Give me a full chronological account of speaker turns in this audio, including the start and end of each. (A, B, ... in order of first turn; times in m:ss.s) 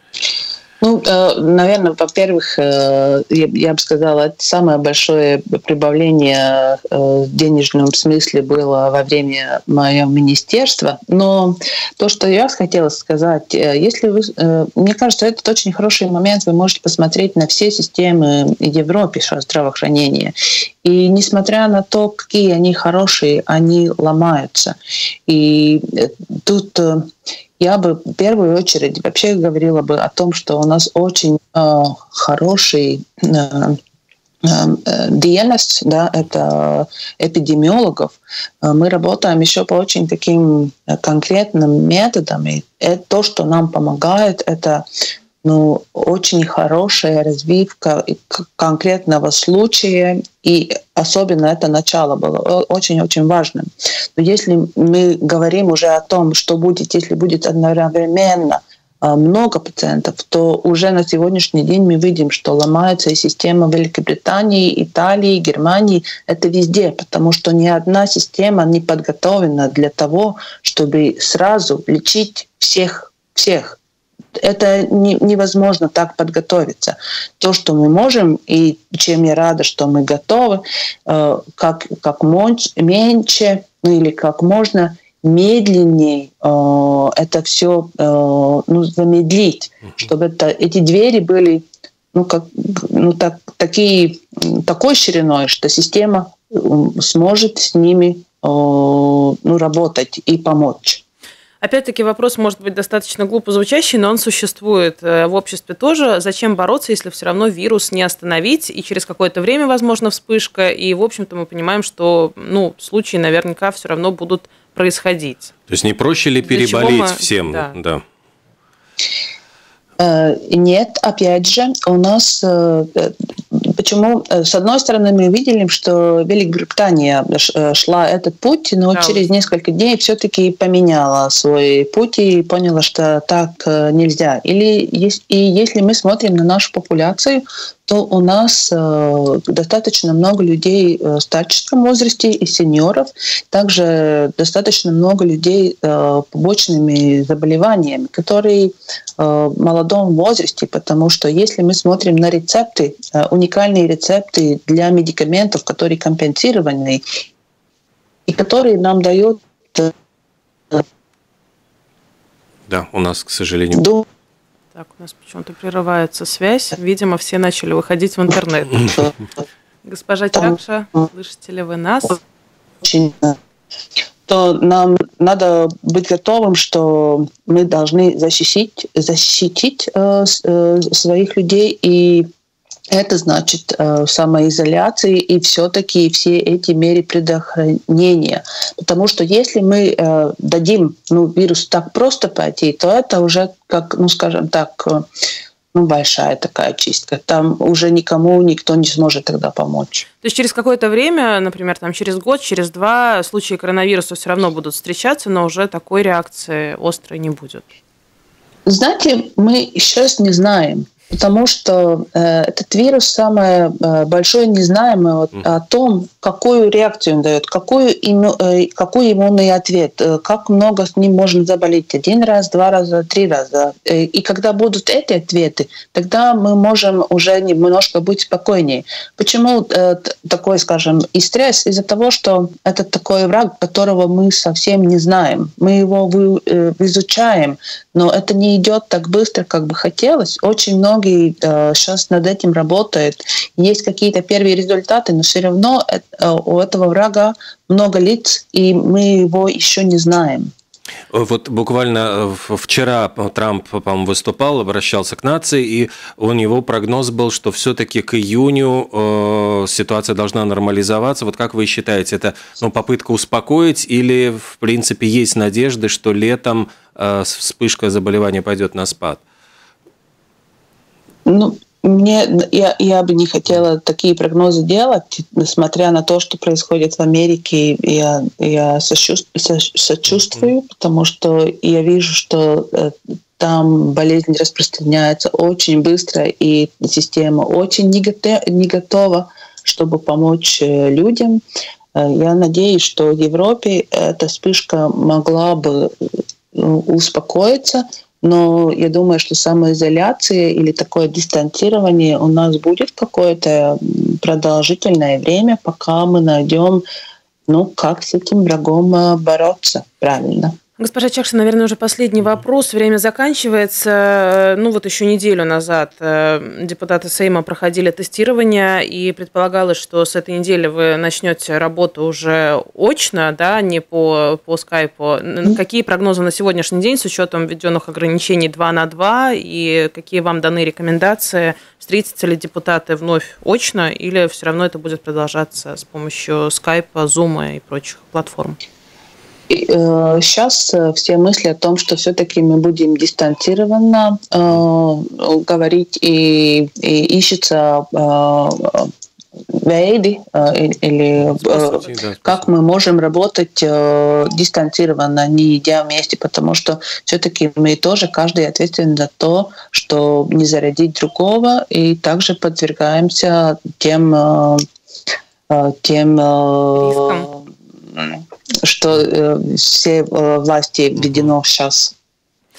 0:00.8-0:24.8 A
0:25.3-0:33.8 A
0:34.4-0:44.8 A
0:45.4-1:13.8 A
1:14.4-1:41.0 A
1:41.6-1:55.5 B
1:55.7-1:58.0 C
1:56.4-1:57.8 B
2:00.0-2:37.0 A
2:08.9-2:09.3 B
2:38.3-2:39.9 A
2:42.7-2:43.8 C
2:43.7-2:44.0 A
2:44.8-2:49.0 B
2:49.8-2:52.2 B
2:52.8-2:53.4 A
2:54.2-3:02.3 A
3:02.9-3:15.1 A
3:15.7-3:20.1 A
3:20.2-3:27.7 B
3:28.6-4:10.5 A
4:11.1-4:29.2 C
4:31.2-4:51.4 A
4:51.9-5:06.8 A
5:07.5-5:10.6 A
5:10.8-5:38.6 B
5:39.5-5:48.9 A
5:49.5-6:04.6 A
5:51.2-5:52.5 C
5:51.5-5:51.8 B
6:05.5-6:11.9 A
6:06.8-6:07.3 B
6:11.0-6:11.3 C